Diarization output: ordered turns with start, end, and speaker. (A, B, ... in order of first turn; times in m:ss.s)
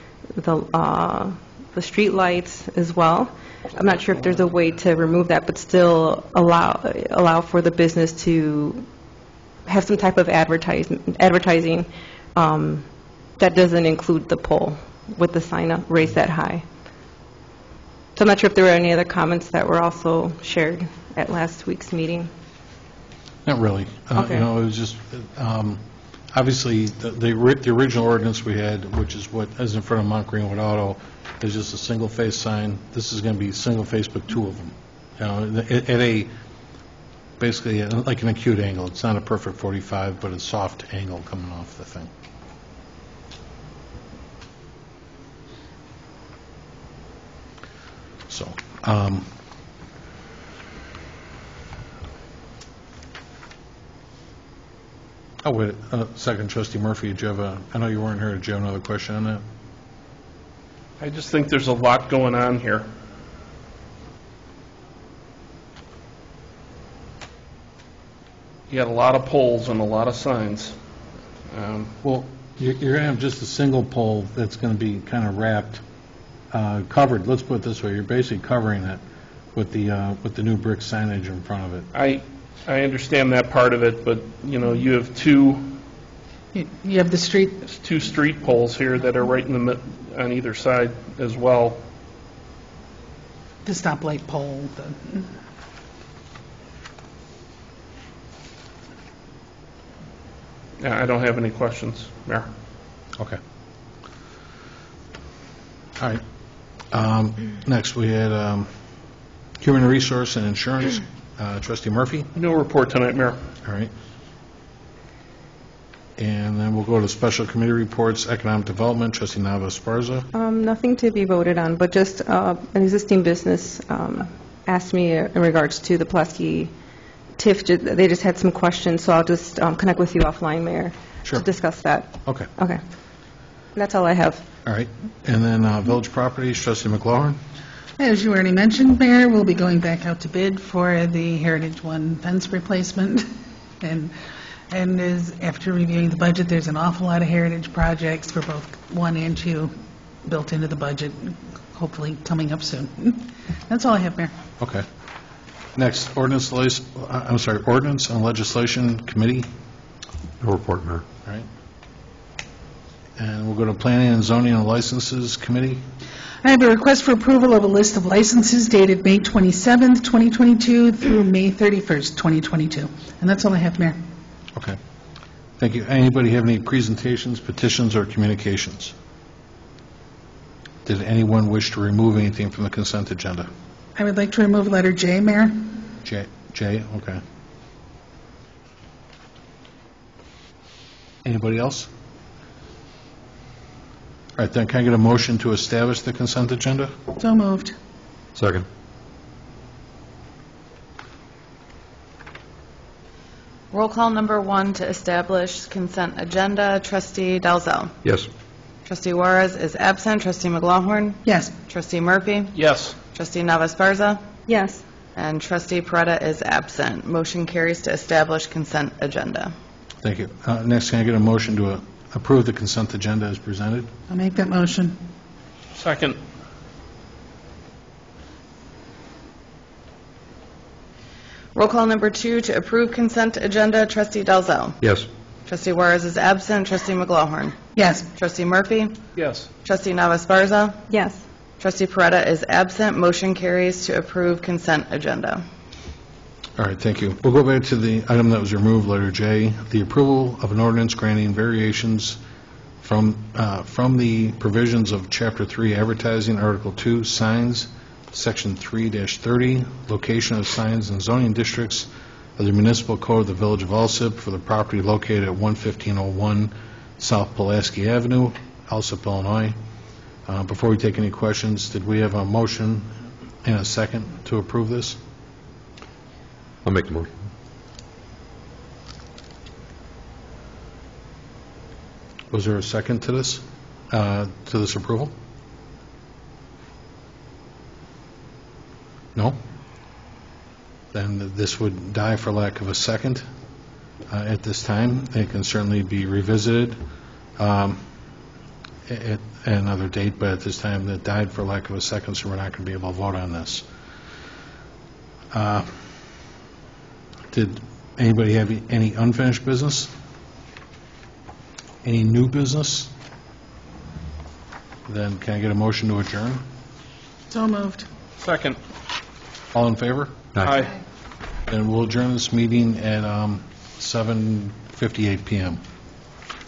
0:00.4-0:08.8 A
0:09.7-0:12.8 A
0:13.4-0:16.6 A
0:18.2-0:22.3 A
0:23.5-0:25.8 B
0:24.1-0:24.5 A
0:26.3-0:36.3 B
0:37.4-0:42.1 B
0:48.3-0:49.3 B
0:55.4-0:59.4 B
1:01.0-1:02.9 C
1:08.7-1:10.8 C
1:11.5-1:11.9 C
1:12.0-1:15.8 B
1:16.5-1:19.0 B
1:19.6-1:21.9 B
1:21.9-1:25.8 C
1:26.5-1:27.7 D
1:27.7-1:31.8 C
1:33.6-1:35.3 D
1:40.8-1:42.5 C
1:46.9-1:48.7 B
1:49.6-1:52.3 B
1:52.4-1:53.4 C
1:53.6-1:53.9 B
1:56.2-2:00.3 B
2:00.3-2:06.7 A
2:07.4-2:12.8 A
2:13.8-2:14.4 A
2:14.7-2:17.4 B
2:18.0-2:23.3 D
2:23.8-2:24.1 D
2:24.7-2:29.7 D
2:30.2-2:34.3 D
2:34.6-2:34.8 B
2:35.8-2:39.5 B
2:40.4-2:41.0 E
2:43.2-2:45.8 B
2:46.4-2:54.0 D
2:55.6-2:58.9 B
3:00.8-3:03.5 B
3:04.0-3:05.7 D
3:06.0-3:07.2 B
3:11.2-3:11.9 B
3:14.4-3:16.9 B
3:17.2-3:17.8 D
3:18.4-3:18.7 E
3:23.7-3:27.9 F
3:28.0-3:28.3 E
3:28.8-3:34.2 F
3:31.2-3:31.5 D
3:32.5-3:33.0 C
3:34.5-3:34.8 A
3:35.2-3:39.5 F
3:40.0-3:43.9 B
3:44.1-3:45.0 D
3:45.8-3:46.2 C
3:51.6-3:54.8 F
3:54.8-3:55.1 E
3:55.5-3:57.6 F
3:57.8-3:58.1 D
3:58.2-3:59.0 F
3:59.2-3:59.5 C
3:59.6-4:00.8 F
4:00.9-4:01.2 A
4:01.6-4:05.4 F
4:06.6-4:12.2 B
4:12.8-4:29.6 B
4:30.3-4:32.9 B
4:33.4-4:35.0 B
4:36.6-4:37.1 E
4:42.3-4:45.1 B
4:50.9-4:53.2 B
4:54.1-4:56.8 B
4:57.4-4:57.8 B
4:58.9-5:03.6 B
5:05.3-5:05.7 B
5:07.3-5:09.9 B
5:11.8-5:12.9 B
5:14.9-5:16.4 B
5:17.3-5:17.9 D
5:18.2-5:18.6 C
5:19.5-5:20.3 B
5:20.3-5:20.6 E
5:20.4-5:20.7 C
5:21.5-5:25.6 B